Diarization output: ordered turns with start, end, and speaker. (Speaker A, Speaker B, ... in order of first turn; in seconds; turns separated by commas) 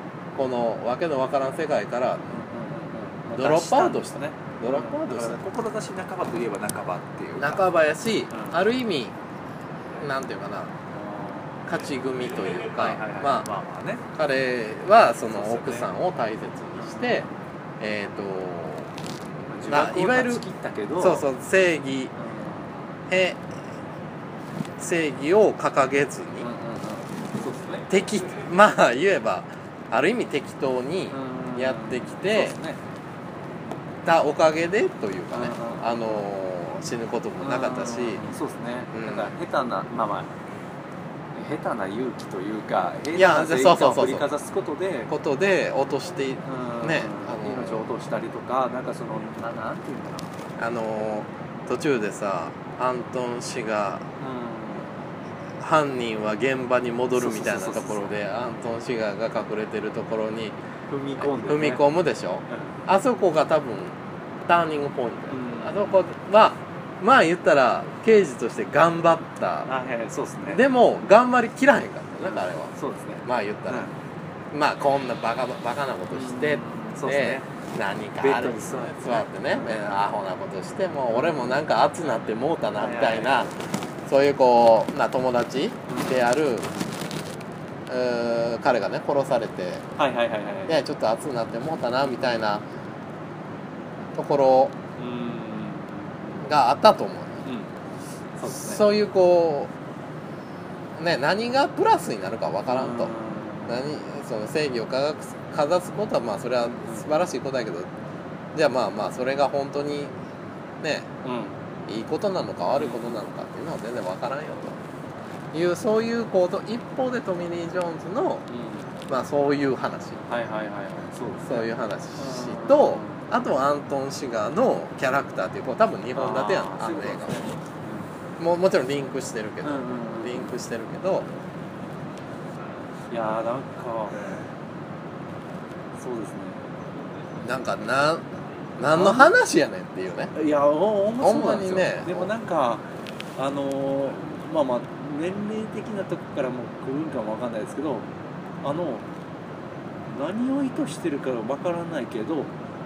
Speaker A: 0.3-2.2, Speaker B: 2.3-7.7, Speaker A: 3.4-5.4, Speaker A: 7.4-9.2, Speaker B: 8.3-8.6, Speaker A: 10.0-10.8, Speaker B: 10.9-11.6, Speaker A: 11.7-13.5, Speaker B: 12.8-14.0, Speaker A: 14.1-17.3, Speaker B: 15.2-15.9, Speaker B: 16.8-17.3, Speaker A: 17.8-18.9, Speaker B: 19.5-21.3, Speaker A: 19.7-20.4, Speaker A: 21.0-22.1, Speaker B: 22.2-22.9, Speaker A: 23.1-23.6, Speaker A: 24.8-26.5, Speaker B: 26.4-27.9, Speaker A: 27.9-32.6, Speaker B: 31.1-32.8, Speaker A: 34.0-38.3, Speaker B: 35.3-36.0, Speaker B: 37.4-40.3, Speaker A: 38.9-39.3, Speaker B: 41.4-45.1, Speaker A: 43.1-44.3, Speaker A: 45.1-47.9, Speaker B: 46.4-50.4, Speaker A: 50.6-54.1, Speaker B: 54.2-54.9, Speaker A: 55.6-60.6, Speaker B: 57.1-58.1, Speaker B: 60.9-61.9, Speaker A: 61.2-69.7, Speaker B: 62.5-62.8, Speaker B: 65.3-66.0, Speaker B: 69.7-70.6, Speaker A: 70.5-72.7, Speaker B: 72.2-74.0, Speaker A: 73.2-73.9, Speaker A: 74.5-83.5, Speaker B: 76.1-77.5, Speaker B: 78.2-79.7, Speaker B: 81.1-81.6, Speaker B: 82.8-83.5, Speaker A: 84.1-86.7, Speaker B: 85.9-86.3, Speaker A: 87.9-89.8, Speaker B: 90.0-90.8, Speaker A: 90.7-92.7, Speaker A: 94.2-94.8, Speaker B: 95.0-96.5, Speaker A: 96.4-97.5, Speaker B: 97.5-97.7, Speaker B: 98.4-98.9, Speaker A: 98.5-99.7, Speaker A: 101.0-103.1, Speaker B: 102.7-103.8, Speaker A: 103.7-107.9, Speaker B: 106.8-107.1, Speaker A: 108.5-110.2, Speaker A: 110.8-111.1, Speaker B: 111.2-111.6, Speaker A: 111.9-114.8, Speaker B: 112.7-113.2, Speaker A: 115.5-118.5, Speaker B: 118.5-118.9, Speaker A: 119.1-120.2, Speaker B: 120.3-123.3, Speaker A: 121.5-127.5, Speaker B: 126.2-128.1, Speaker A: 128.4-131.3, Speaker B: 129.6-130.5, Speaker B: 133.1-134.4, Speaker B: 136.0-136.6, Speaker A: 137.4-138.3, Speaker A: 138.8-140.3, Speaker B: 138.9-139.3, Speaker B: 140.3-142.8, Speaker A: 141.2-142.3, Speaker B: 143.4-148.1, Speaker B: 148.6-149.1, Speaker B: 150.1-152.5